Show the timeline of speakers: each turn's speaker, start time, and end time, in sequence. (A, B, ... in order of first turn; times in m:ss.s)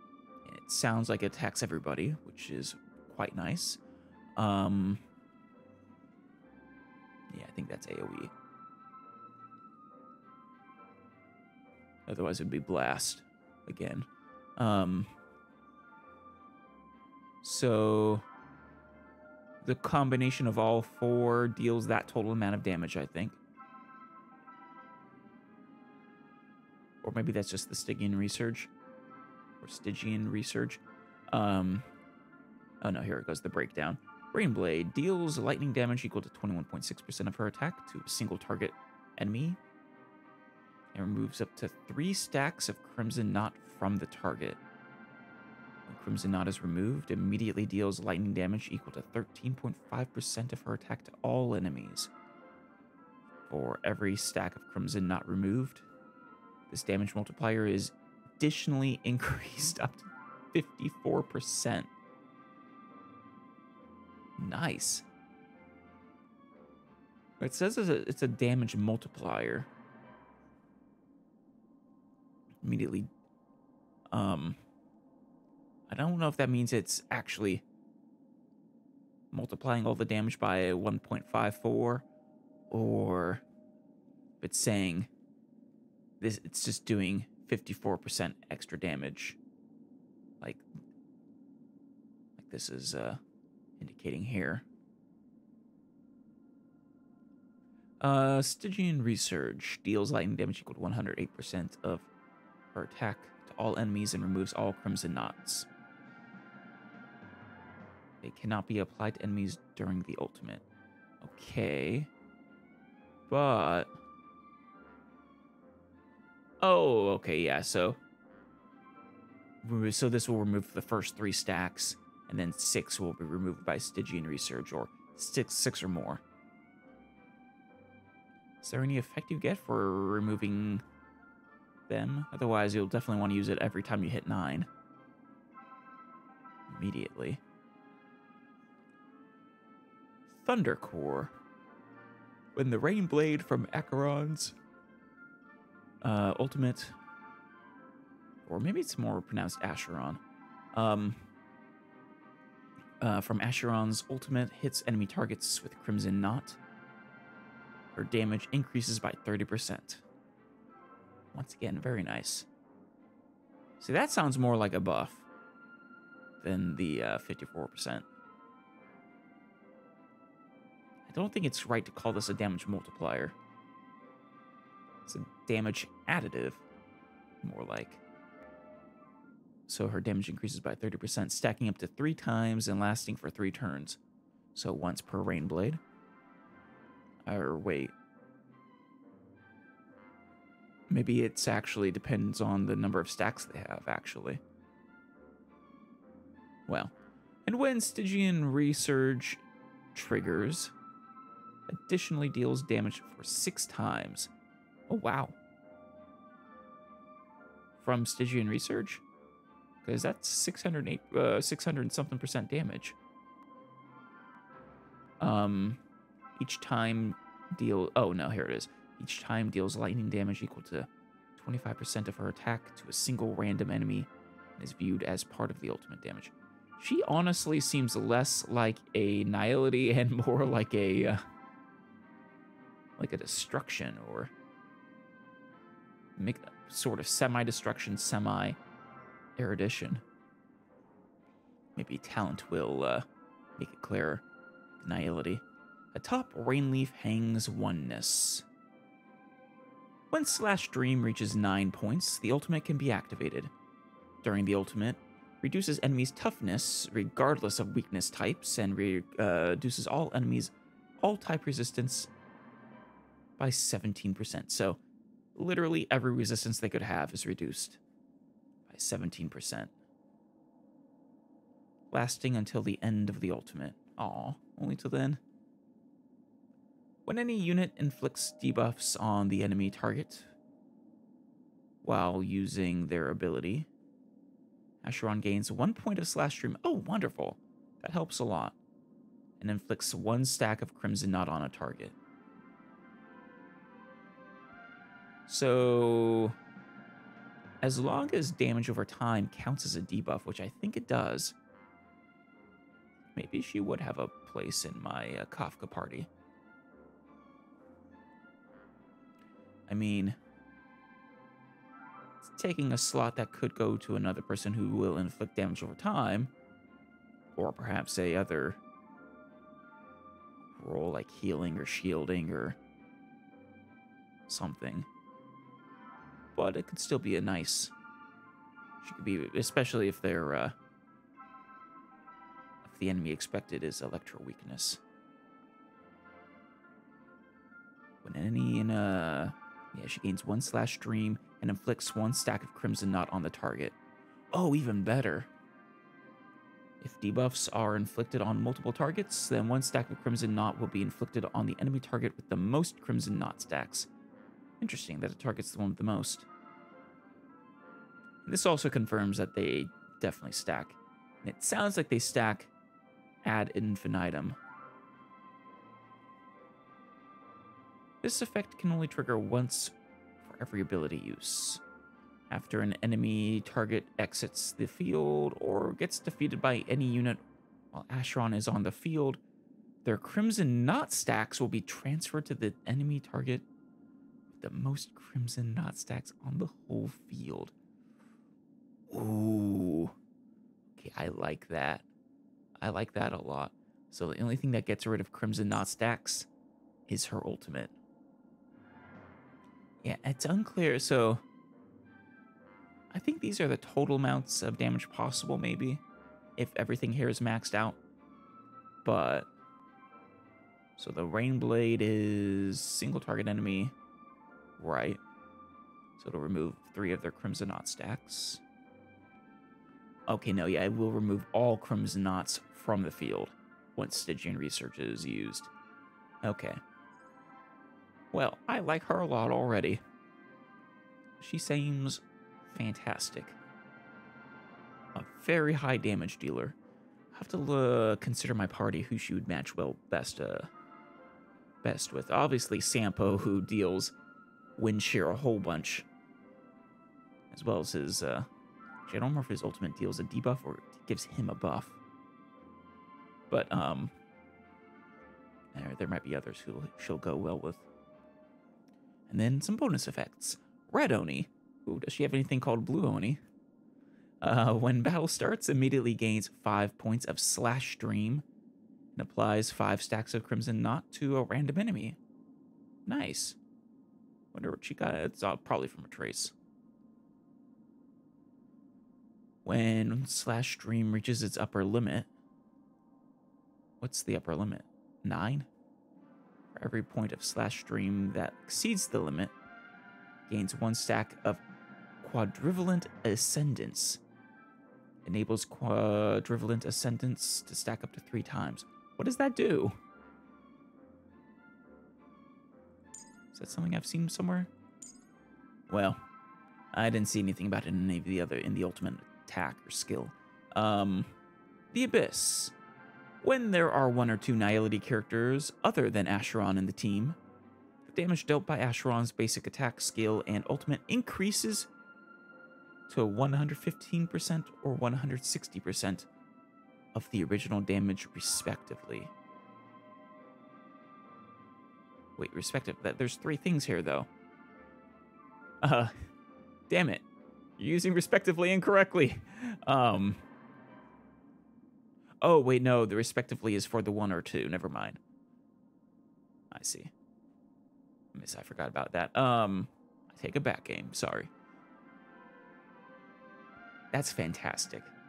0:00.4-0:03.8 A
0:04.4-0:05.0 A
0:07.3-0:08.3 A
0:12.1-0:15.1 A
0:17.4-0:18.2 A
0:19.6-0:23.4 A
0:27.0-0:28.7 A
0:29.6-0:31.9 A
0:32.8-0:39.6 A
0:40.9-0:44.6 A
0:45.9-0:52.1 A
0:53.5-0:55.9 A
0:56.7-1:01.9 A
1:04.4-1:05.0 A
1:07.4-1:09.7 A
1:12.6-1:13.1 A
1:14.1-1:14.6 A
1:15.9-1:17.6 A
1:19.3-1:22.0 A
1:22.7-1:23.4 A
1:24.4-1:25.1 A
1:26.2-1:29.4 A
1:32.4-1:33.2 A
1:33.8-1:34.6 A
1:38.0-1:42.1 A
1:42.8-1:45.7 A
1:48.2-1:50.6 A
1:51.2-1:52.1 A
1:53.3-1:53.9 A
1:56.6-1:58.0 A
1:59.6-2:06.2 A
2:08.6-2:10.8 A
2:11.9-2:14.7 A
2:16.7-2:17.4 A
2:20.4-2:21.3 A
2:22.6-2:24.5 A
2:26.0-2:27.0 A
2:28.5-2:30.2 A
2:30.7-2:31.2 A
2:33.0-2:36.6 A
2:38.0-2:40.0 A
2:41.3-2:42.5 A
2:43.8-2:45.2 A
2:46.4-2:48.0 A
2:51.1-2:53.4 A
2:55.1-2:56.6 A
2:57.4-2:58.0 A
2:59.7-3:04.0 A
3:04.6-3:05.8 A
3:07.3-3:07.9 A
3:10.9-3:14.4 A
3:16.7-3:16.9 A
3:17.5-3:19.4 A
3:19.9-3:20.7 A
3:21.7-3:24.3 A
3:24.9-3:25.4 A
3:27.8-3:29.0 A
3:29.8-3:33.0 A
3:35.2-3:35.8 A
3:36.4-3:51.2 A
3:53.0-3:54.3 A
3:56.2-3:58.6 A
3:59.4-4:00.0 A
4:01.8-4:03.1 A
4:03.6-4:04.2 A
4:04.8-4:05.4 A
4:05.9-4:08.4 A
4:10.1-4:13.5 A
4:14.2-4:22.1 A
4:23.4-4:24.8 A
4:25.4-4:27.8 A
4:28.7-4:29.7 A
4:31.9-4:35.2 A
4:37.1-4:40.3 A
4:41.8-4:43.7 A
4:44.8-4:48.6 A
4:49.4-4:52.0 A
4:55.3-4:56.4 A
4:57.6-5:01.4 A
5:03.2-5:06.1 A
5:09.7-5:10.2 A
5:12.2-5:16.3 A
5:17.4-5:18.6 A
5:20.6-5:22.6 A
5:24.3-5:24.9 A
5:26.4-5:27.7 A
5:28.8-5:30.6 A
5:32.6-5:34.8 A
5:38.0-5:43.8 A
5:44.3-5:45.3 A
5:46.8-5:53.9 A
5:54.6-5:56.3 A
5:58.2-6:02.5 A
6:03.2-6:04.4 A
6:08.0-6:11.6 A
6:12.3-6:17.2 A
6:17.7-6:19.2 A
6:19.8-6:23.4 A
6:24.4-6:27.5 A
6:28.9-6:30.0 A
6:30.8-6:31.8 A
6:32.6-6:36.3 A
6:36.9-6:37.7 A
6:39.8-6:41.2 A
6:42.9-6:45.8 A
6:46.4-6:47.8 A
6:48.8-6:49.3 A
6:50.8-6:53.7 A
6:54.6-6:55.0 A
6:56.0-6:58.4 A
7:00.1-7:05.5 A
7:06.2-7:06.6 A
7:08.1-7:09.8 A
7:11.2-7:13.4 A
7:15.0-7:16.6 A
7:17.1-7:20.5 A
7:21.6-7:23.9 A
7:24.6-7:25.9 A
7:27.3-7:28.3 A
7:28.9-7:31.8 A
7:33.3-7:33.9 A
7:35.5-7:37.6 A
7:39.1-7:43.2 A
7:44.2-7:48.2 A
7:49.0-7:52.0 A
7:52.9-7:53.4 A
7:54.3-7:56.3 A
7:59.4-8:02.1 A
8:03.8-8:05.5 A
8:06.6-8:09.3 A
8:10.3-8:11.4 A
8:12.0-8:14.0 A
8:15.0-8:19.8 A
8:23.3-8:24.5 A
8:25.7-8:26.0 A
8:26.7-8:31.1 A
8:31.7-8:32.5 A
8:33.2-8:37.2 A
8:37.9-8:41.7 A
8:42.9-8:46.1 A
8:47.0-8:49.1 A
8:52.2-8:54.1 A
8:55.6-8:56.0 A
8:56.7-8:57.0 A
8:57.6-9:00.2 A
9:02.2-9:05.0 A
9:06.5-9:06.9 A
9:08.1-9:11.3 A
9:13.9-9:14.9 A